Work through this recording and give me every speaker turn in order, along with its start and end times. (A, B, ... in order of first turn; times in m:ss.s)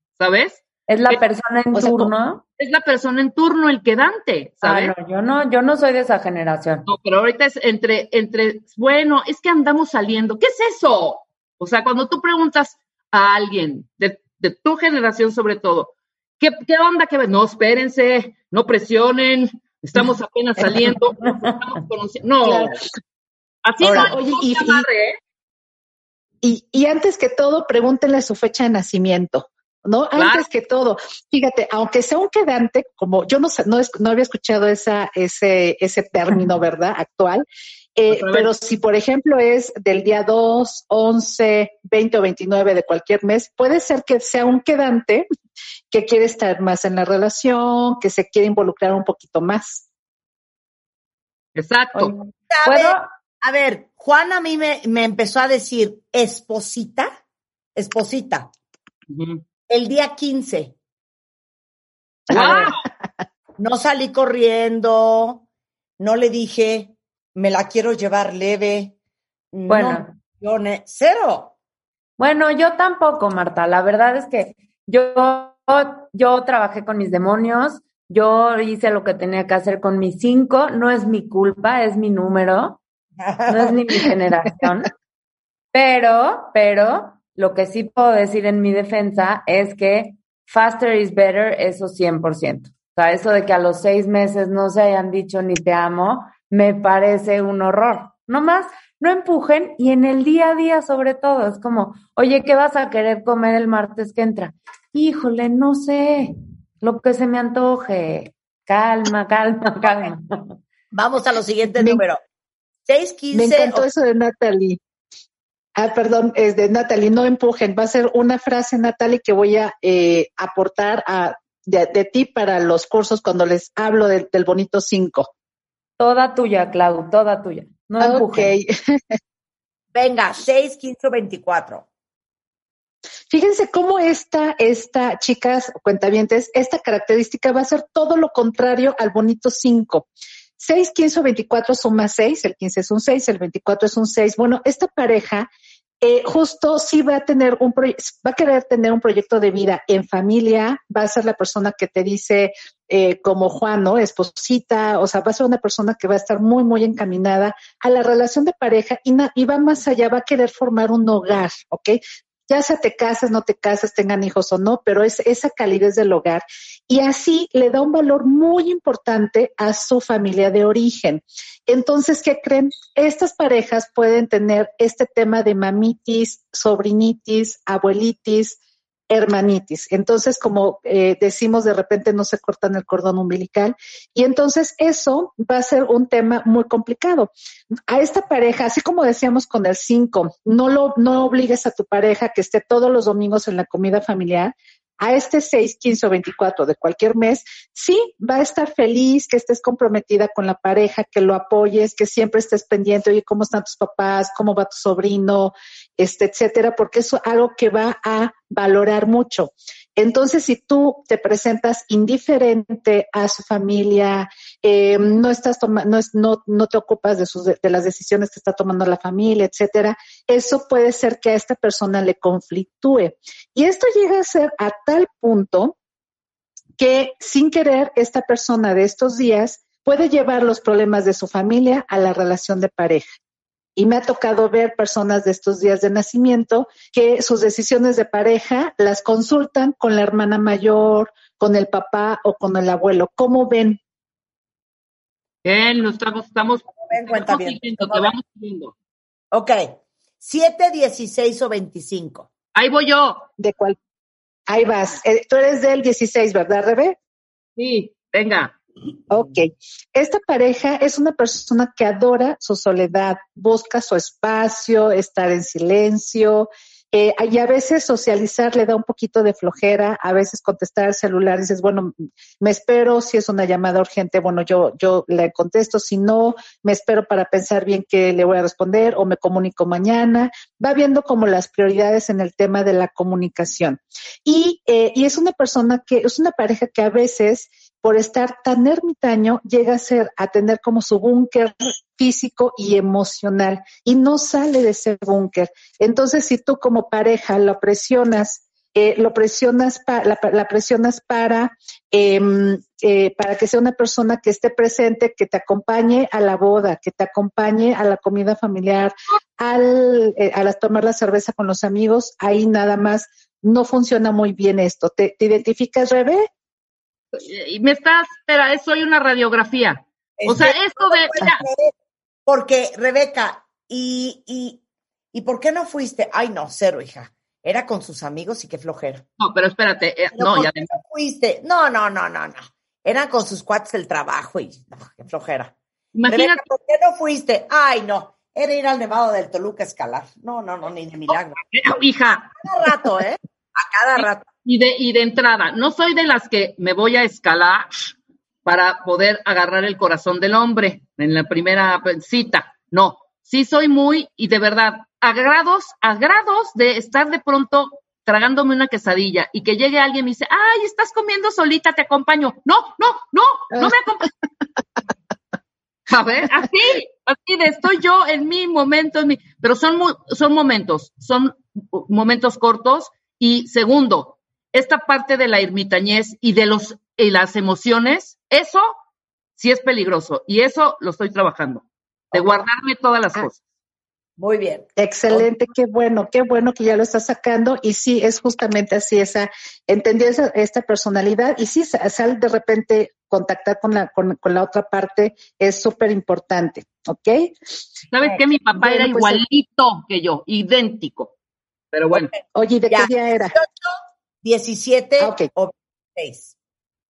0:00.2-0:01.2 A
0:00.9-0:02.4 B
0:01.7-0:02.1 C
0:02.6-0:04.9 A
0:04.6-0:06.9 B
0:06.9-0:22.8 A
0:22.4-0:22.7 C
0:23.6-0:25.2 A
0:23.8-0:24.2 D
0:23.8-0:24.9 C
0:26.4-0:37.4 C
0:30.2-0:30.5 A
0:38.0-0:45.3 C
0:38.1-0:38.5 A
0:45.9-0:49.8 C
0:51.6-0:52.1 A
0:51.9-0:53.1 B
0:52.5-0:57.1 D
0:57.8-0:58.5 D
0:59.1-0:59.4 A
0:59.7-1:00.7 D
1:02.3-1:02.8 A
1:03.6-1:05.4 D
1:06.0-1:08.9 D
1:09.5-1:11.5 D
1:09.7-1:10.2 B
1:12.2-1:22.8 B
1:23.2-1:23.7 D
1:23.5-1:24.9 B
1:25.7-1:50.5 B
1:50.9-1:52.2 D
1:52.9-1:53.9 D
1:53.3-1:54.8 C
1:55.8-2:05.3 C
2:06.0-2:08.5 B
2:08.0-2:09.2 C
2:09.9-2:11.8 D
2:13.3-2:20.0 C
2:20.6-2:25.5 C
2:26.0-2:58.6 C
2:59.1-3:07.3 C
3:07.9-3:45.8 C
3:46.8-3:53.0 C
3:53.8-4:03.8 C
4:05.4-4:08.7 A
4:06.8-4:08.1 D
4:09.3-4:12.3 D
4:12.5-4:13.2 A
4:13.4-4:13.8 C
4:14.5-4:17.0 C
4:17.6-4:18.5 A
4:19.1-5:16.3 C
5:17.1-5:21.4 A
5:20.2-5:21.7 D
5:22.3-5:24.6 D
5:25.1-5:29.0 D
5:29.2-5:30.7 A
5:30.1-5:35.5 D
5:36.0-5:36.4 A
5:36.1-5:41.4 D
5:41.5-5:42.3 A
5:42.4-5:44.2 D
5:44.0-5:47.7 A
5:48.4-6:04.1 A
6:05.9-6:18.7 A
6:19.4-6:23.4 A
6:24.2-6:25.3 D
6:24.8-6:37.3 C
6:37.9-6:41.1 A
6:38.6-6:39.2 C
6:41.7-6:42.1 A
6:41.9-6:42.2 D
6:42.3-6:43.3 C
6:42.7-6:46.3 D
6:45.0-6:45.3 C